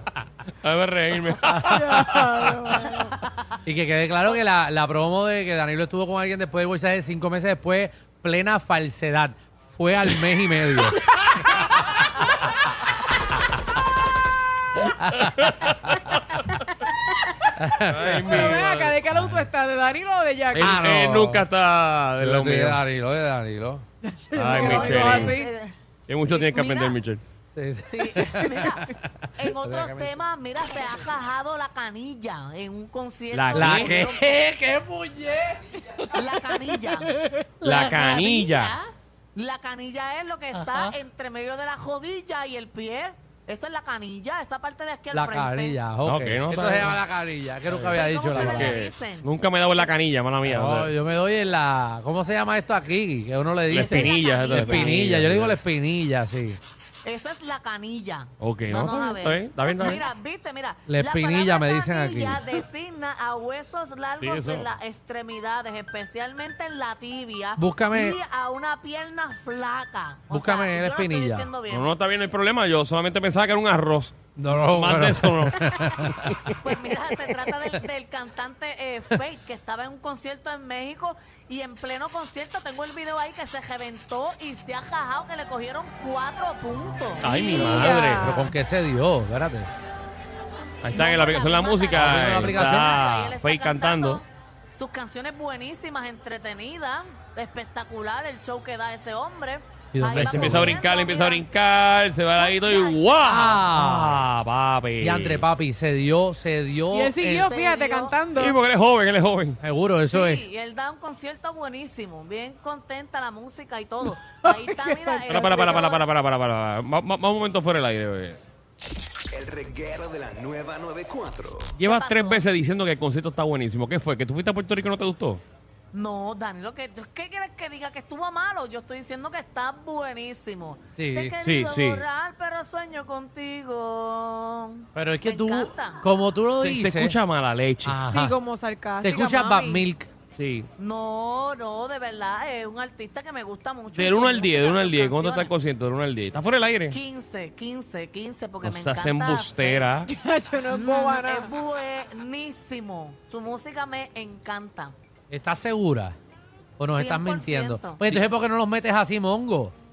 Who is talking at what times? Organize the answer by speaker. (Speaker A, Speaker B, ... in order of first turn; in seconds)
Speaker A: 0.6-2.3, 14.8-16.6, 17.7-19.0, 20.5-22.8, 24.4-25.4, 26.1-27.2, 33.3-34.0, 37.6-38.7, 46.0-47.0, 47.7-50.9, 53.7-55.6, 58.4-60.0, 64.2-64.7, 71.7-76.6, 87.2-88.3, 90.8-94.2, 100.1-105.4, 108.3-109.6, 115.3-118.4, 121.8-125.4, 131.4-132.0, 136.6-137.9, 140.3-140.7, 143.9-147.0, 148.6-150.1
Speaker B: 1.6-3.2, 18.3-20.7, 24.0-25.5, 87.3-88.5, 106.9-108.6, 114.2-115.8, 138.1-139.9, 150.1-151.5
Speaker C: 3.6-11.0, 17.6-18.5, 20.5-21.4, 22.2-23.8, 27.5-28.9, 29.6-30.2, 33.5-36.6, 40.5-40.9, 45.1-48.8, 50.4-56.6, 60.9-62.4, 67.6-68.2, 70.3-71.5, 74.4-76.4, 88.2-89.7, 92.0-93.0, 99.9-100.8, 103.2-104.2, 105.0-107.5, 109.6-110.4, 130.9-131.4, 134.9-137.2, 137.8-138.4, 139.0-140.1, 155.3-156.2, 156.8-159.7
Speaker D: 24.5-25.7, 26.2-26.9, 27.9-34.3, 36.1-45.8, 47.9-49.9, 53.7-54.9, 57.0-71.9, 76.6-87.3, 90.9-101.5, 102.4-103.3, 107.4-108.1, 110.1-116.0, 121.8-122.4, 125.9-136.1, 140.8-145.5, 146.9-150.0, 150.7-154.9, 156.9-158.2
Speaker E: 119.3-121.7